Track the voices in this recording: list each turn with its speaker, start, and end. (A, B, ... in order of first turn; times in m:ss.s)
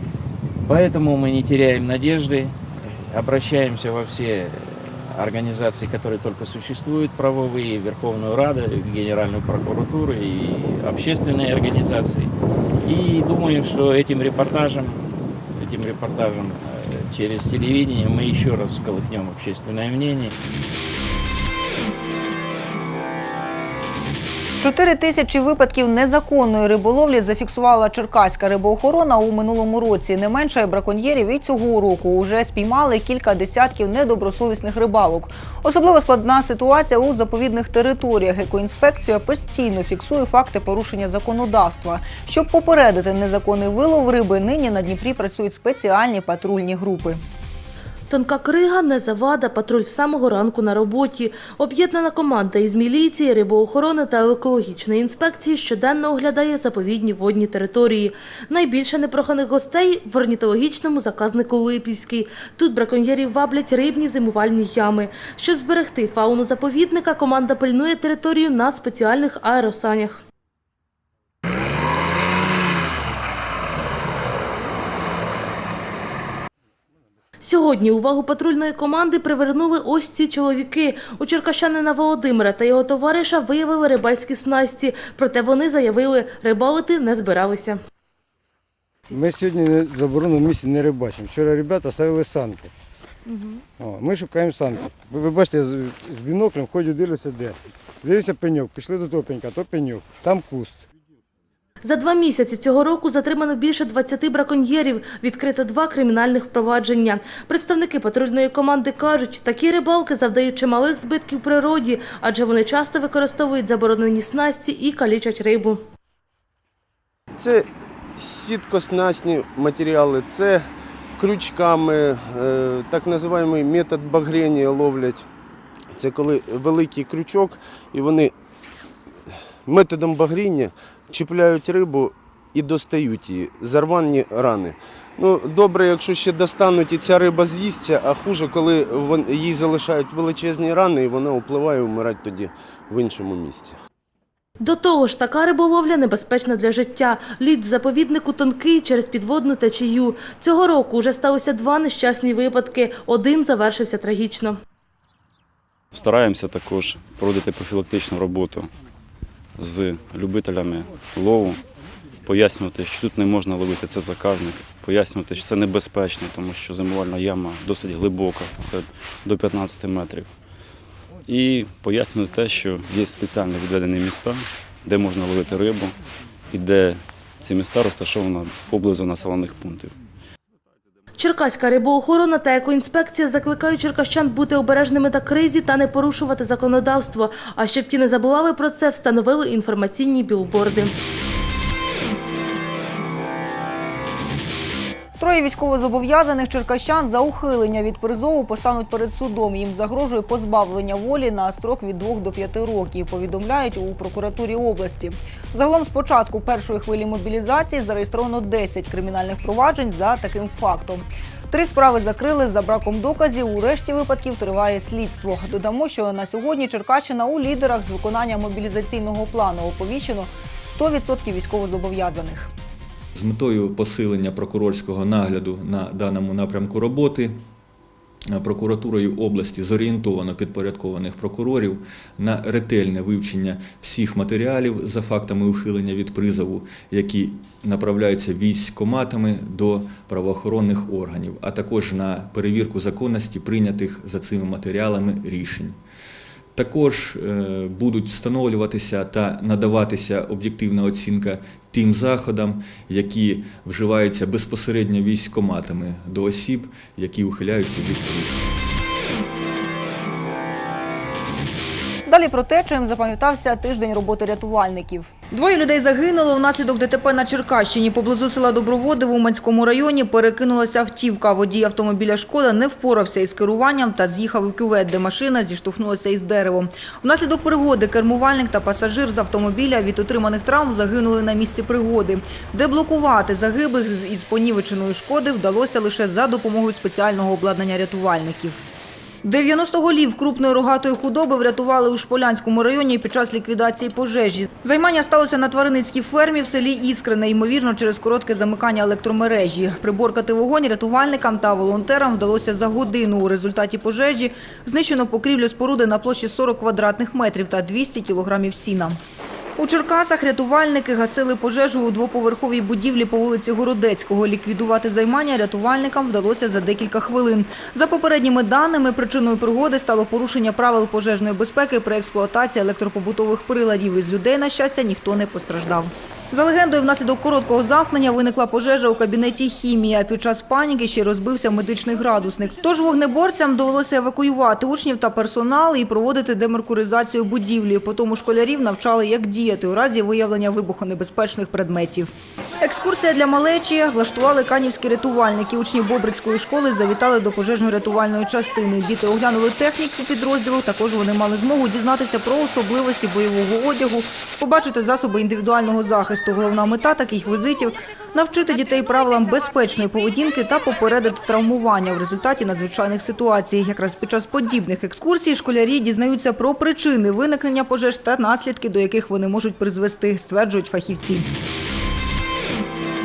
0:00.6-0:12.3 A
0:12.8-0:20.4 A
0:24.6-0:47.2 B
0:48.1-1:10.2 C
1:17.4-1:27.8 C
1:29.1-1:32.7 D
1:33.2-1:33.6 C
1:33.8-1:40.8 D
1:41.8-1:55.8 C
1:57.4-2:05.3 E
2:05.9-2:08.3 E
2:09.6-2:23.8 E
2:24.6-2:34.6 C
2:35.9-2:38.7 F
2:39.6-2:41.6 F
2:42.2-2:50.3 F
2:51.2-2:56.0 F
2:56.5-2:59.9 F
3:01.2-3:10.9 C
3:15.2-3:42.5 B
3:43.2-3:47.4 G
3:48.3-4:05.8 G
4:06.5-4:18.3 G
4:22.0-4:48.6 B
4:49.2-5:09.0 B
5:09.6-5:42.1 B
5:42.6-6:11.2 B